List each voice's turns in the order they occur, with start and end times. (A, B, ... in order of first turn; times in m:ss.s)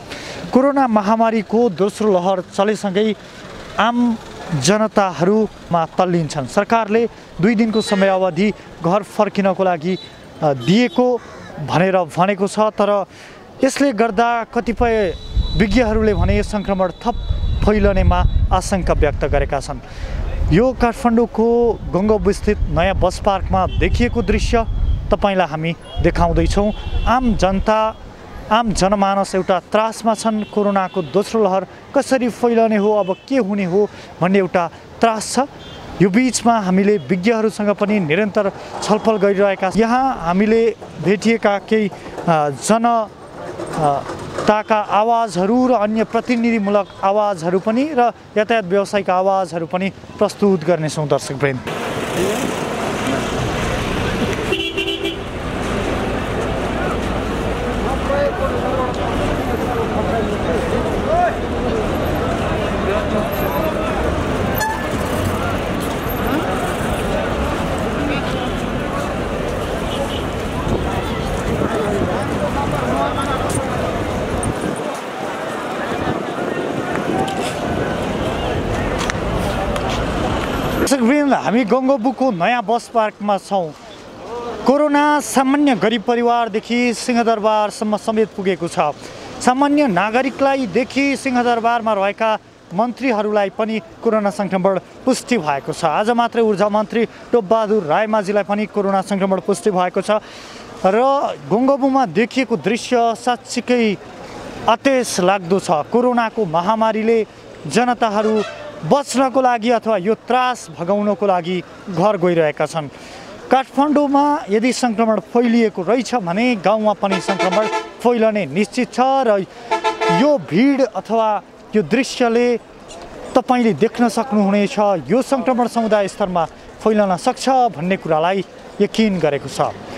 0:00.5-0:03.2 A
0:03.8-0:13.1 A
0:13.6-0:19.8 A
0:20.5-0:28.0 A
0:28.5-0:35.5 A
0:36.0-0:43.1 A
0:43.8-0:51.6 A
1:20.8-1:23.8 A
1:24.6-1:40.2 A
1:40.8-1:44.0 A
1:44.7-1:52.9 A
1:53.5-1:59.5 A
2:00.1-2:02.6 A
2:03.3-2:09.7 A